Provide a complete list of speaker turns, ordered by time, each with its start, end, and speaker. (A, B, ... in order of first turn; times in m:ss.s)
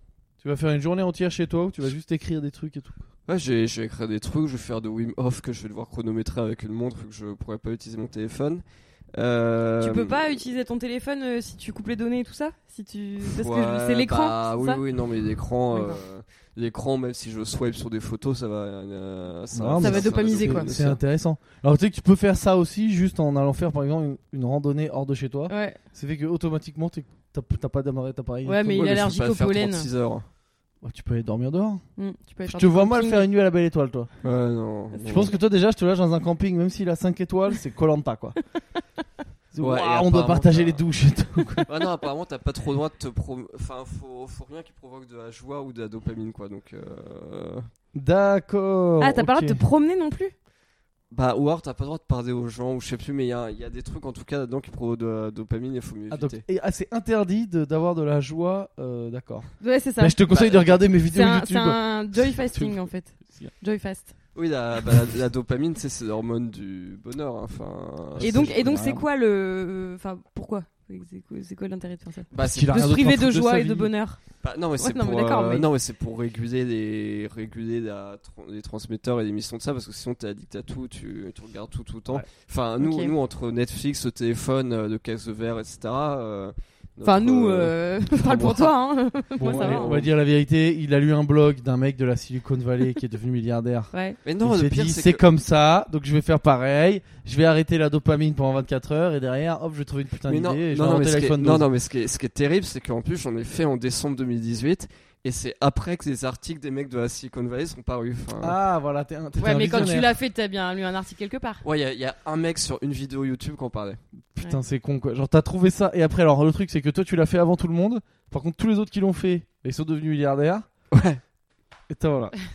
0:00.4-0:03.0 A
0:03.3-0:08.6 B
0:09.1-0:10.4 B
0:09.8-0:14.8 C
0:13.2-0:21.0 B
0:15.7-0:16.0 C
0:19.5-0:29.0 A
0:19.8-0:20.7 C
0:25.5-0:25.8 C
0:28.4-0:29.9 C
0:28.7-0:30.2 B
0:30.8-0:31.8 A
0:32.0-0:33.2 C
0:32.4-0:34.1 A
0:34.2-0:35.3 B
0:35.0-0:38.4 A
0:39.5-0:41.7 A
0:39.6-0:40.8 B
0:41.6-0:47.7 B
0:47.9-0:49.6 A
0:49.0-0:50.3 C
0:51.1-0:56.4 B
0:56.1-1:03.5 A
0:59.6-1:00.4 C
1:00.3-1:00.7 B
1:01.0-1:04.1 C
1:04.3-1:08.7 B
1:08.1-1:09.0 A
1:08.2-1:15.7 C
1:12.3-1:13.0 B
1:12.5-1:13.9 A
1:14.4-1:28.7 B
1:22.8-1:23.1 C
1:27.0-1:29.9 C
1:29.3-1:30.1 B
1:29.4-1:41.6 A
1:33.9-1:34.2 C
1:34.2-1:35.2 B
1:40.3-1:48.6 B
1:48.4-1:50.1 A
1:49.4-1:51.6 C
1:51.6-1:54.0 B
1:54.3-2:00.6 A
2:00.9-2:01.2 B
2:01.9-2:02.4 A